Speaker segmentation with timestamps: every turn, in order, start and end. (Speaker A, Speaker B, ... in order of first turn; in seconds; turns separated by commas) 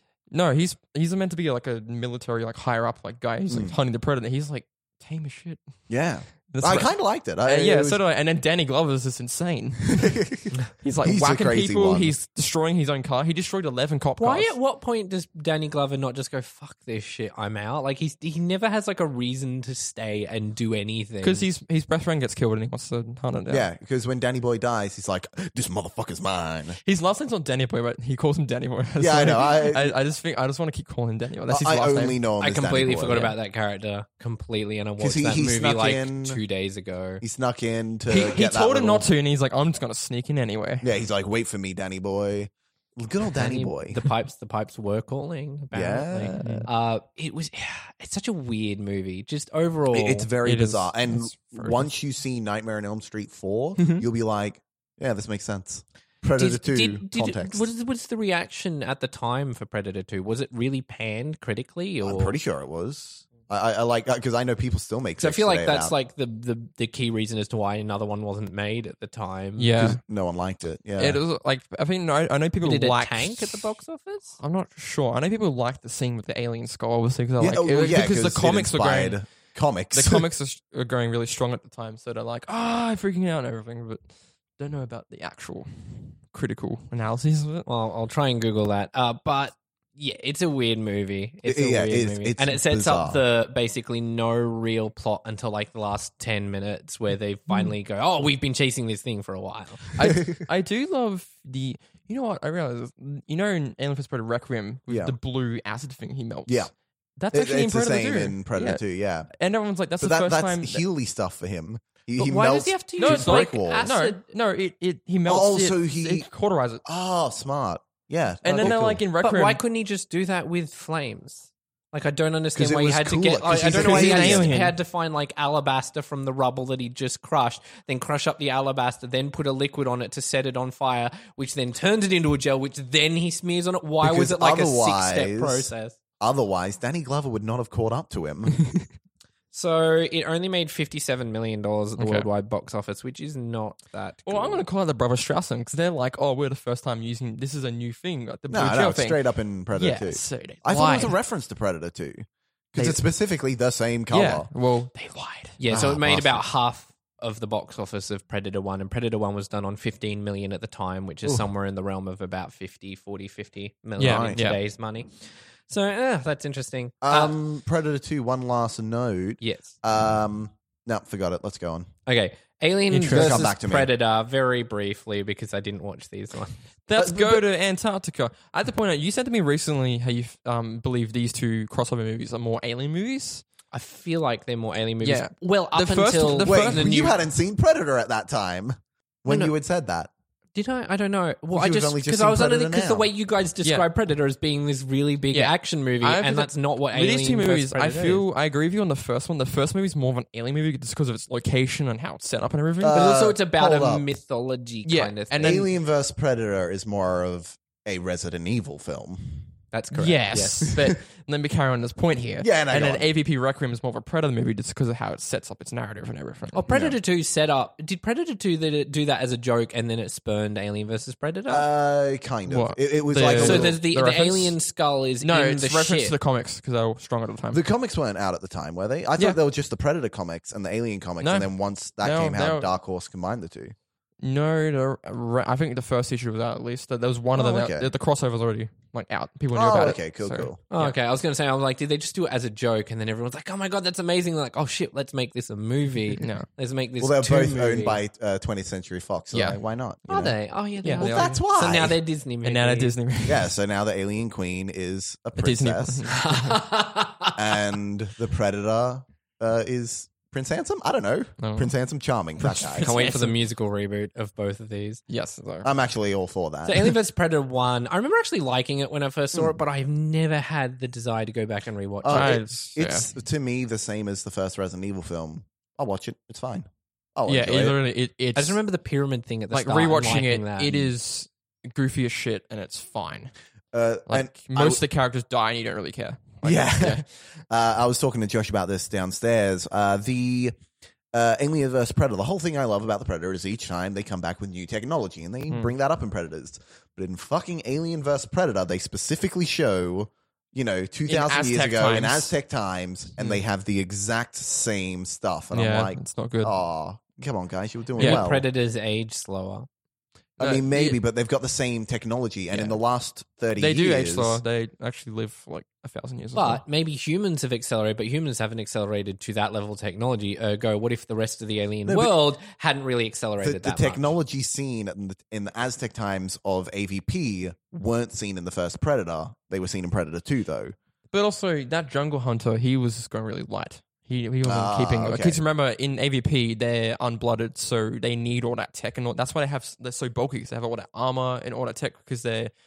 Speaker A: 0.3-5.7, Speaker B: 3.5-3.7, Speaker B: 5.9-8.0, Speaker A: 6.5-14.5, Speaker B: 9.9-10.5, Speaker B: 11.0-12.1, Speaker C: 14.2-21.4, Speaker A: 21.2-23.7, Speaker B: 23.5-26.8, Speaker A: 26.8-32.2, Speaker B: 29.0-29.9, Speaker B: 31.5-33.3, Speaker C: 32.4-37.2, Speaker B: 35.0-36.4, Speaker B: 37.2-39.1, Speaker A: 38.1-40.9, Speaker B: 40.8-44.0, Speaker C: 43.4-50.3, Speaker B: 45.7-46.7, Speaker A: 46.4-46.7, Speaker B: 49.9-57.6, Speaker A: 50.4-51.9, Speaker C: 56.4-62.4, Speaker B: 62.0-65.9, Speaker C: 65.2-69.7, Speaker A: 69.6-70.0, Speaker B: 69.8-71.2, Speaker A: 71.0-73.7, Speaker C: 72.6-74.4, Speaker A: 74.4-79.2, Speaker B: 77.4-80.2, Speaker A: 79.9-84.1, Speaker A: 84.6-87.7, Speaker C: 87.7-99.9, Speaker B: 91.4-93.2, Speaker A: 99.9-108.8, Speaker B: 104.9-105.2, Speaker B: 107.3-109.3, Speaker A: 109.3-110.8, Speaker B: 110.0-113.9, Speaker C: 112.2-114.2, Speaker A: 113.0-116.8, Speaker B: 115.2-116.3, Speaker B: 116.8-119.0, Speaker A: 118.4-119.6, Speaker C: 118.4-136.0, Speaker B: 122.5-124.5, Speaker A: 123.6-124.8, Speaker B: 134.0-138.6, Speaker C: 139.5-144.6, Speaker A: 142.0-142.3, Speaker A: 144.2-149.2, Speaker B: 148.5-154.5, Speaker A: 149.7-151.1, Speaker A: 152.8-153.0, Speaker A: 154.1-155.6, Speaker C: 155.6-167.3, Speaker B: 155.7-156.4, Speaker A: 164.0-164.6, Speaker B: 164.0-164.4, Speaker B: 167.0-171.9, Speaker C: 169.4-169.7, Speaker C: 172.1-176.6, Speaker A: 172.9-173.5, Speaker B: 173.1-173.9, Speaker A: 176.9-183.4, Speaker B: 177.0-177.4, Speaker C: 183.7-187.1, Speaker A: 185.0-186.9, Speaker B: 186.4-190.1, Speaker C: 189.2-189.5, Speaker C: 190.5-198.2, Speaker B: 191.5-193.1, Speaker A: 195.3-203.0, Speaker B: 202.8-204.0, Speaker C: 202.9-205.7, Speaker A: 204.8-205.7, Speaker B: 205.4-209.5, Speaker C: 209.7-210.7, Speaker A: 209.9-216.6, Speaker B: 210.7-210.9, Speaker B: 212.4-213.1, Speaker C: 216.5-221.7, Speaker B: 216.7-217.0, Speaker B: 221.5-223.8, Speaker A: 222.5-224.5, Speaker C: 223.3-226.1, Speaker A: 225.2-227.6, Speaker B: 227.5-233.7, Speaker A: 231.2-232.7, Speaker A: 234.2-241.0, Speaker B: 237.3-237.9, Speaker B: 239.5-240.6, Speaker C: 240.7-248.0, Speaker A: 246.1-246.5, Speaker B: 247.0-250.3, Speaker A: 249.3-249.6, Speaker C: 250.1-252.9, Speaker A: 250.8-251.4, Speaker B: 251.0-252.0, Speaker A: 252.4-253.5, Speaker B: 253.2-256.1, Speaker A: 255.4-256.6, Speaker C: 256.1-257.6, Speaker B: 257.4-262.9, Speaker A: 261.4-261.7, Speaker A: 262.4-263.4, Speaker C: 262.8-265.0, Speaker A: 265.1-265.7, Speaker B: 265.6-266.9, Speaker C: 266.7-272.4, Speaker B: 272.0-277.8, Speaker A: 272.1-273.1, Speaker A: 277.3-278.6, Speaker C: 278.4-280.9, Speaker A: 279.5-283.3, Speaker B: 283.7-284.8, Speaker A: 284.1-287.0, Speaker B: 286.4-290.5, Speaker B: 291.1-308.5, Speaker A: 301.1-302.3, Speaker A: 305.5-306.5, Speaker A: 308.0-308.2, Speaker C: 308.0-309.7, Speaker A: 310.4-311.0, Speaker B: 310.4-314.4, Speaker A: 312.5-312.8, Speaker A: 313.6-316.6, Speaker C: 316.4-324.1, Speaker B: 321.9-322.1, Speaker B: 323.4-330.8, Speaker A: 331.1-342.5, Speaker B: 334.4-335.4